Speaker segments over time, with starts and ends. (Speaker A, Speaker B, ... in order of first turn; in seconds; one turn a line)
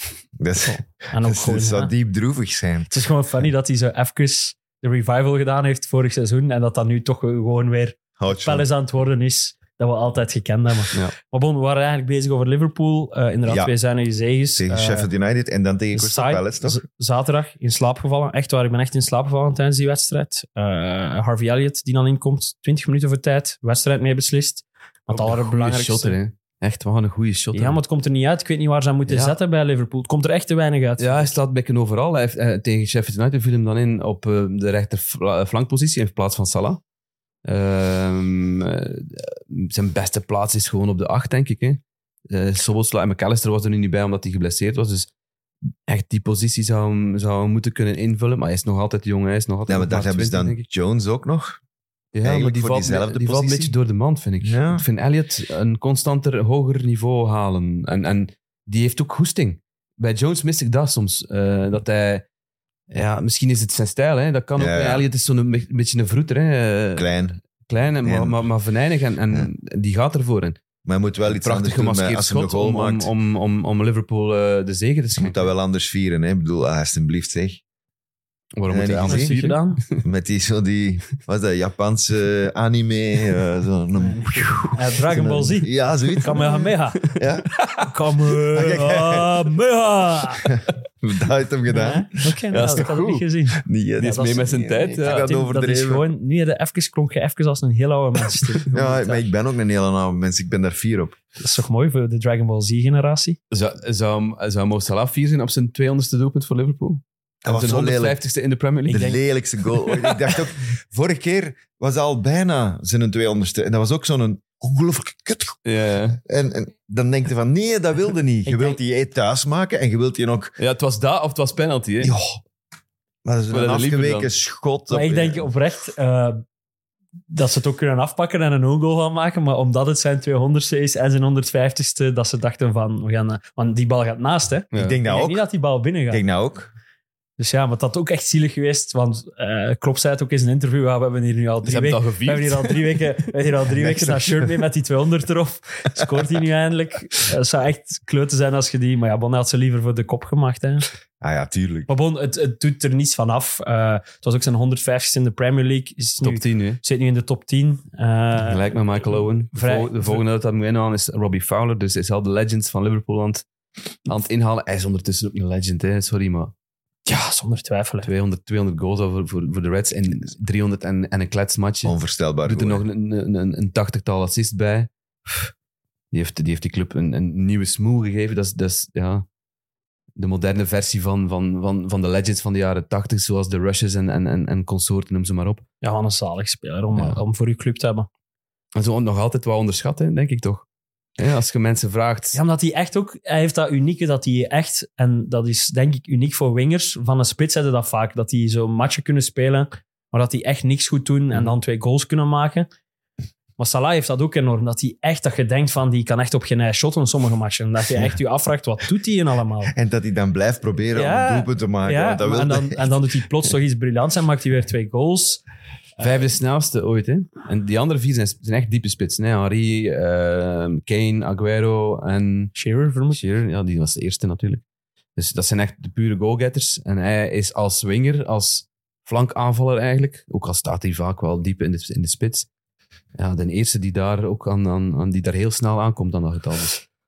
Speaker A: 0.4-2.9
Speaker B: 0.7-1.9
Speaker B: 2.9-15.1
Speaker A: 8.2-8.7
Speaker A: 13.5-13.7
Speaker A: 14.6-16.8
Speaker B: 15.9-26.2
Speaker C: 25.1-27.8
Speaker B: 27.5-31.3
Speaker C: 29.1-29.3
Speaker C: 31.0-36.8
Speaker C: 37.4-45.1
Speaker C: 45.9-50.6
Speaker A: 49.7-51.6
Speaker C: 52.1-62.2
Speaker A: 52.2-53.7
Speaker A: 54.4-54.9
Speaker C: 62.9-70.6
Speaker A: 64.6-65.0
Speaker A: 67.0-67.4
Speaker A: 68.0-68.4
Speaker A: 70.8-73.1
Speaker C: 71.3-75.5
Speaker A: 75.2-77.6
Speaker C: 78.6-80.0
Speaker A: 78.7-79.3
Speaker B: 79.1-79.8
Speaker A: 80.0-87.6
Speaker B: 84.0-87.0
Speaker B: 87.8-90.5
Speaker A: 88.5-89.3
Speaker A: 90.4-92.1
Speaker B: 91.7-94.4
Speaker C: 92.5-93.2
Speaker A: 93.6-96.0
Speaker C: 94.0-95.3
Speaker B: 95.0-99.3
Speaker A: 98.7-101.2
Speaker B: 101.4-103.4
Speaker C: 103.5-109.2
Speaker A: 107.4-108.2
Speaker A: 108.9-115.6
Speaker B: 108.9-109.2
Speaker C: 115.6-116.2
Speaker A: 116.2-120.5
Speaker B: 118.5-118.8
Speaker C: 120.6-122.1
Speaker A: 122.0-122.4
Speaker A: 123.2-125.5
Speaker C: 123.5-124.3
Speaker B: 124.9-126.4
Speaker B: 127.3-136.2
Speaker C: 134.7-135.0
Speaker A: 134.7-135.4
Speaker A: 136.1-136.7
Speaker B: 137.4-150.9
Speaker C: 141.6-143.0
Speaker A: 143.7-144.5
Speaker A: 151.2-151.9
Speaker B: 151.9-158.6
Speaker C: 156.2-156.8
Speaker C: 158.4-163.4
Speaker B: 159.5-160.2
Speaker C: 164.1-166.5
Speaker B: 167.1-168.1
Speaker C: 168.0-171.9
Speaker A: 171.8-172.8
Speaker C: 172.4-175.5
Speaker C: 176.1-179.3
Speaker C: 180.2-185.6
Speaker B: 185.8-188.1
Speaker C: 186.9-187.2
Speaker C: 188.7-190.7
Speaker C: 191.2-192.4
Speaker B: 192.3-202.7
Speaker B: 203.6-209.7
Speaker A: 209.7-212.9
Speaker B: 210.9-215.4
Speaker C: 216.0-222.5
Speaker B: 222.5-223.2
Speaker C: 223.1-224.6
Speaker C: 225.2-232.5
Speaker C: 233.2-236.8